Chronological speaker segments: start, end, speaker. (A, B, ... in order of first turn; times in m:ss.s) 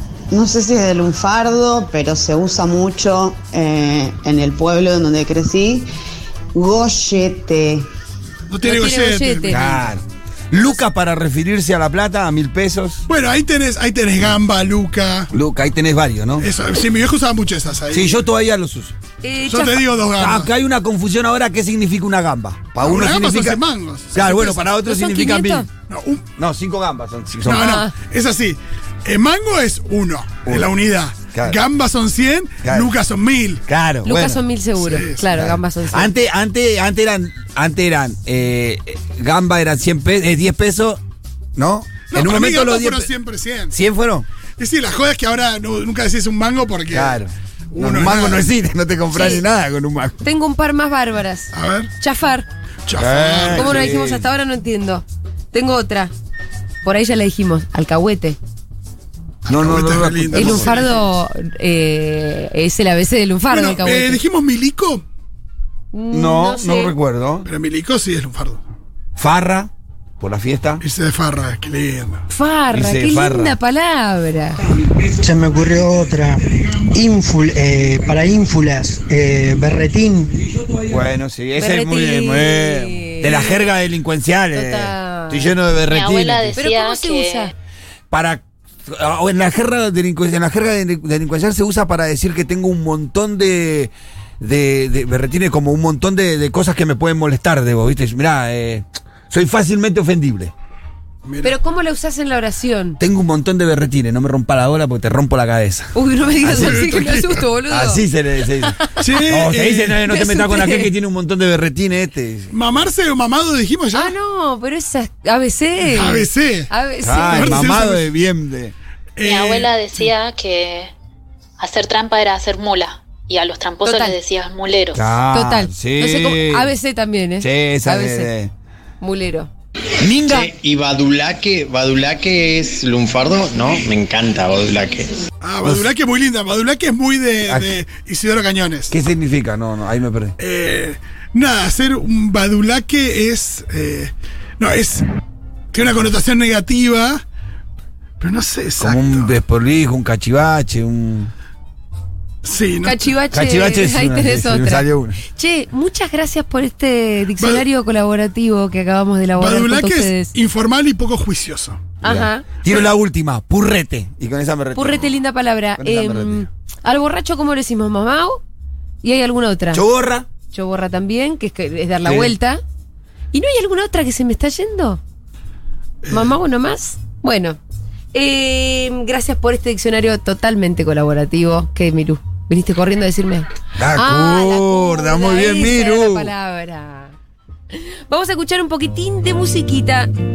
0:03.5-0:04.1 A
0:04.8-0:05.8 A
0:06.5-0:07.8 A
0:08.5-0:09.6 B
0:08.6-0:09.6 C
0:09.5-0:13.0 D
0:13.1-0:15.3 B
0:15.3-0:16.5 D
0:16.4-0:18.2 B
0:17.9-0:18.9 D
0:19.2-0:19.8 C
0:19.4-0:20.5 B
0:20.2-0:23.6 D
0:22.8-0:24.5 B
0:24.1-0:25.7 D
0:24.3-0:25.7 C
0:25.9-0:26.3 B
0:26.4-0:27.7 D
0:27.4-0:33.6 B
0:27.5-0:27.9 C
0:30.4-0:30.7 D
0:31.3-0:31.6 D
0:32.6-0:32.9 D
0:33.7-0:34.4 D
0:34.0-0:36.1 C
0:34.8-0:35.2 B
0:35.3-0:41.0 D
0:41.6-0:43.1 D
0:42.1-0:43.8 B
0:43.7-0:44.2 D
0:44.6-0:47.2 B
0:46.9-0:50.2 D
0:47.7-0:48.4 B
0:49.1-0:49.4 C
0:50.2-0:52.4 C
0:51.5-0:51.9 B
0:52.9-0:53.9 B
0:53.0-0:54.3 D
0:53.5-0:56.1 C
0:56.8-0:58.4 C
0:59.5-1:01.0 B
0:59.5-1:00.7 D
1:00.3-1:04.2 C
1:03.5-1:05.0 B
1:05.9-1:06.9 C
1:06.1-1:07.5 D
1:07.4-1:08.6 B
1:09.2-1:10.8 D
1:10.8-1:12.2 B
1:12.3-1:14.6 C
1:12.7-1:13.6 D
1:15.2-1:20.4 E
1:20.9-1:26.6 D
1:21.6-1:23.6 C
1:24.5-1:25.5 C
1:25.9-1:27.5 F
1:26.6-1:27.5 C
1:28.1-1:40.5 D
1:41.2-1:41.5 B
1:41.4-1:43.0 C
1:43.0-1:52.5 D
1:45.9-1:48.0 C
1:46.5-1:47.1 B
1:48.6-1:48.9 C
1:49.0-1:50.0 B
1:50.1-1:50.9 C
1:52.5-1:54.1 B
1:53.9-1:57.8 C
1:55.9-1:56.7 B
1:57.0-1:58.7 D
1:57.3-1:58.1 B
1:59.2-1:59.8 B
1:59.2-2:00.9 F
2:01.6-2:05.0 F
2:03.8-2:04.2 C
2:04.9-2:06.7 D
2:05.3-2:08.3 C
2:07.4-2:08.5 D
2:09.0-2:09.5 C
2:10.0-2:10.5 D
2:10.6-2:12.6 G
2:13.1-2:15.0 G
2:15.4-2:18.9 B
2:17.4-2:17.8 D
2:18.9-2:20.3 D
2:20.4-2:25.0 B
2:25.7-2:27.2 B
2:28.2-2:29.3 B
2:28.8-2:31.3 D
2:32.4-2:33.0 B
2:32.8-2:40.3 C
2:33.3-2:35.2 D
2:39.4-2:42.0 B
2:42.0-2:42.5 C
2:42.0-2:45.2 D
2:44.7-2:48.4 C
2:45.8-2:46.5 D
2:49.0-2:49.8 C
2:49.7-2:50.2 D
2:50.5-2:52.6 C
2:52.0-2:52.3 D
2:53.3-2:55.0 C
2:56.0-2:56.3 B
2:56.1-2:57.6 C
2:58.1-3:07.1 C
3:03.8-3:06.3 D
3:07.7-3:10.1 C